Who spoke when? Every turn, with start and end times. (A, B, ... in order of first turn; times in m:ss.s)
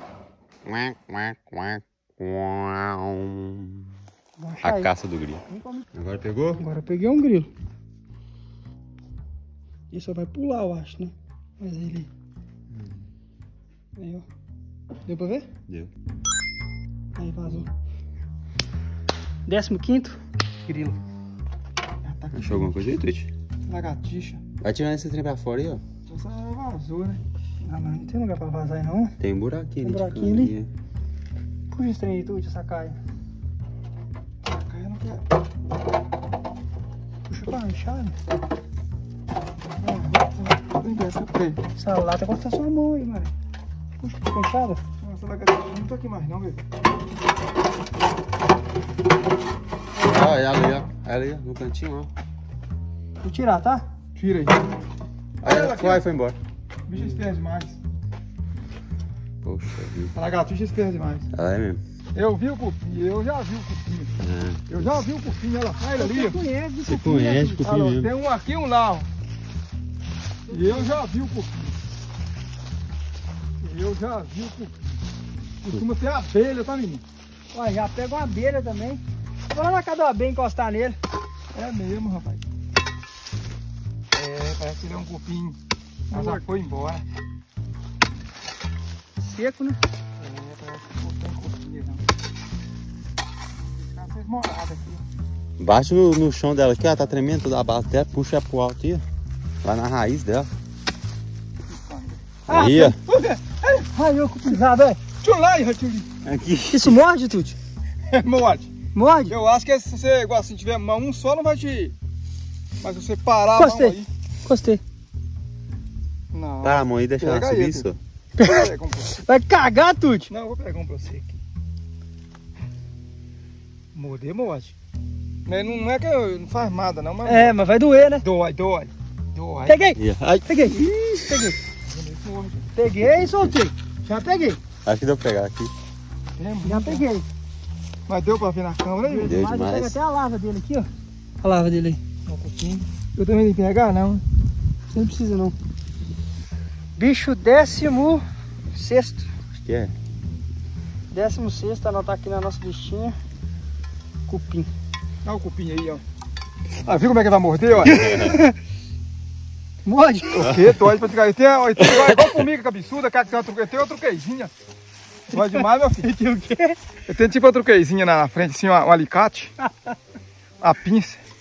0:00.6-0:03.9 A
0:04.4-0:04.9 B
0:04.6-0:06.6 A
0:05.5-0:05.9 B
0:06.6-0:07.5 B
0:09.9-0:12.1 B
0:12.7-0:13.0 A
0:14.0-0:14.2 B
0:15.1-0:15.5 B
0:17.2-0:17.7 B
0:19.5-0:21.0 B
0:22.0-0:22.8 C
0:22.3-0:23.3 A
0:23.7-0:24.4 C
0:24.6-0:25.8 A
0:26.1-0:27.2 C
0:27.6-0:29.2 B
0:29.2-0:30.7 A
0:29.8-0:30.6 B
0:31.7-0:33.0 B
0:34.5-0:35.2 C
0:37.3-0:38.2 B
0:39.8-0:41.6 C
0:41.8-0:43.3 B
0:44.0-0:44.8 B
0:45.0-0:46.6 C
0:50.0-0:52.1 A
0:53.2-0:53.9 B
0:54.2-0:54.7 C
0:55.4-0:56.4 A
0:55.4-0:56.0 C
0:56.9-0:57.8 C
0:59.4-1:00.1 A
1:00.1-1:01.3 C
1:01.3-1:01.8 A
1:02.2-1:04.1 C
1:04.2-1:04.8 A
1:04.7-1:06.4 C
1:05.8-1:07.6 B
1:06.8-1:08.1 A
1:07.6-1:09.1 C
1:10.5-1:11.8 C
1:10.5-1:10.8 B
1:13.6-1:14.9 C
1:15.6-1:17.0 C
1:17.5-1:21.0 B
1:21.5-1:22.5 C
1:24.1-1:25.6 C
1:26.1-1:26.4 B
1:26.1-1:27.0 C
1:29.2-1:29.8 B
1:30.2-1:32.0 C
1:33.6-1:35.0 C
1:35.6-1:39.0 A
1:39.6-1:40.5 A
1:41.7-1:42.4 C
1:42.5-1:43.0 B
1:42.5-1:43.0 A
1:43.1-1:43.9 C
1:43.9-1:45.0 B
1:45.2-1:46.1 C
1:46.2-1:47.0 A
1:46.7-1:47.6 B
1:48.1-1:48.7 C
1:48.9-1:49.4 B
1:49.3-1:52.0 C
1:52.8-1:54.1 C
1:53.5-1:54.8 B
1:56.3-1:57.9 C
1:56.6-1:58.0 A
1:58.4-2:00.3 B
1:58.4-1:59.2 C
2:00.3-2:01.4 C
2:04.0-2:04.7 C
2:05.5-2:07.6 C
2:07.2-2:08.2 B
2:08.2-2:09.8 C
2:09.7-2:11.6 B
2:10.0-2:11.5 A
2:11.8-2:12.7 C
2:12.7-2:14.6 B
2:13.0-2:13.5 A
2:14.8-2:15.7 A
2:16.4-2:17.0 C
2:16.6-2:17.2 B
2:18.1-2:19.4 C
2:19.0-2:20.9 B
2:19.2-2:20.0 A
2:21.4-2:22.0 B
2:22.3-2:24.2 C
2:24.9-2:25.6 B
2:27.0-2:29.3 B
2:29.6-2:29.9 A
2:31.1-2:33.2 B
2:34.3-2:34.7 B
2:35.2-2:36.0 C
2:36.8-2:38.1 C
2:37.9-2:38.5 B
2:39.9-2:40.5 B
2:40.3-2:44.5 C
2:45.3-2:46.8 B
2:45.3-2:46.1 C
2:47.1-2:49.5 C
2:49.6-2:50.0 B
2:50.6-2:51.2 C